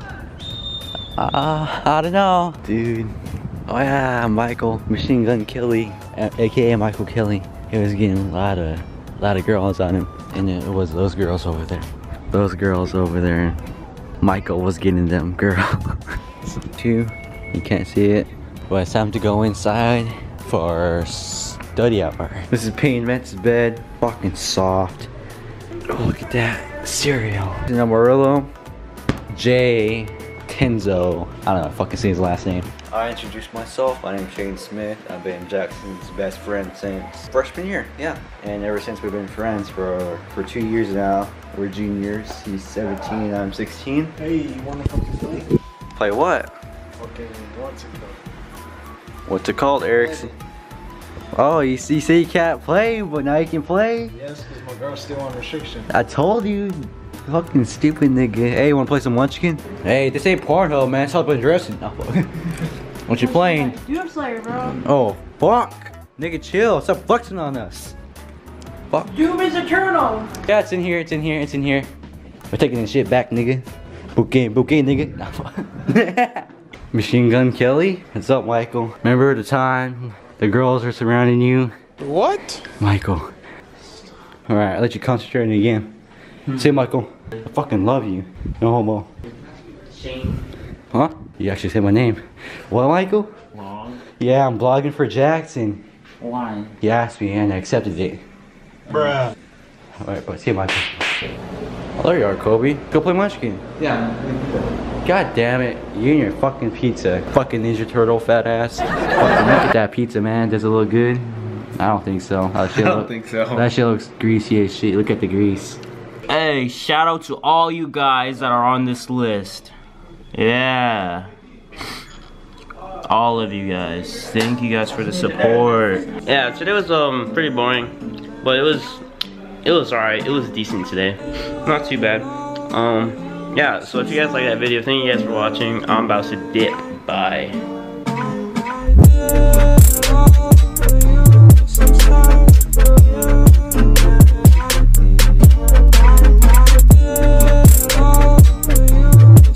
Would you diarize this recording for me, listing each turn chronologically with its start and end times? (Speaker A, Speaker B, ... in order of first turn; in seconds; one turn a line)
Speaker A: 1.2-13.6
Speaker A: 14.2-25.1
Speaker A: 25.9-28.5
Speaker A: 29.3-44.1
Speaker B: 44.2-45.5
Speaker A: 46.0-46.5
Speaker B: 47.0-48.2
Speaker A: 49.3-50.3
Speaker A: 51.3-54.1
Speaker B: 54.1-55.9
Speaker A: 55.9-62.5
Speaker A: 63.1-63.8
Speaker C: 63.2-64.8
Speaker A: 64.6-67.9
Speaker A: 68.9-69.3
Speaker C: 69.3-70.2
Speaker A: 70.4-71.9
Speaker A: 72.5-81.7
Speaker A: 82.8-83.3
Speaker A: 84.5-85.9
Speaker A: 86.5-89.1
Speaker D: 89.9-90.4
Speaker A: 90.9-93.3
Speaker A: 94.1-95.8
Speaker A: 96.8-98.2
Speaker A: 100.0-101.3
Speaker A: 102.0-103.6
Speaker B: 103.8-104.7
Speaker A: 105.0-115.8
Speaker B: 112.7-113.7
Speaker D: 116.3-119.7
Speaker D: 120.3-121.3
Speaker D: 123.0-129.0
Speaker D: 129.6-137.6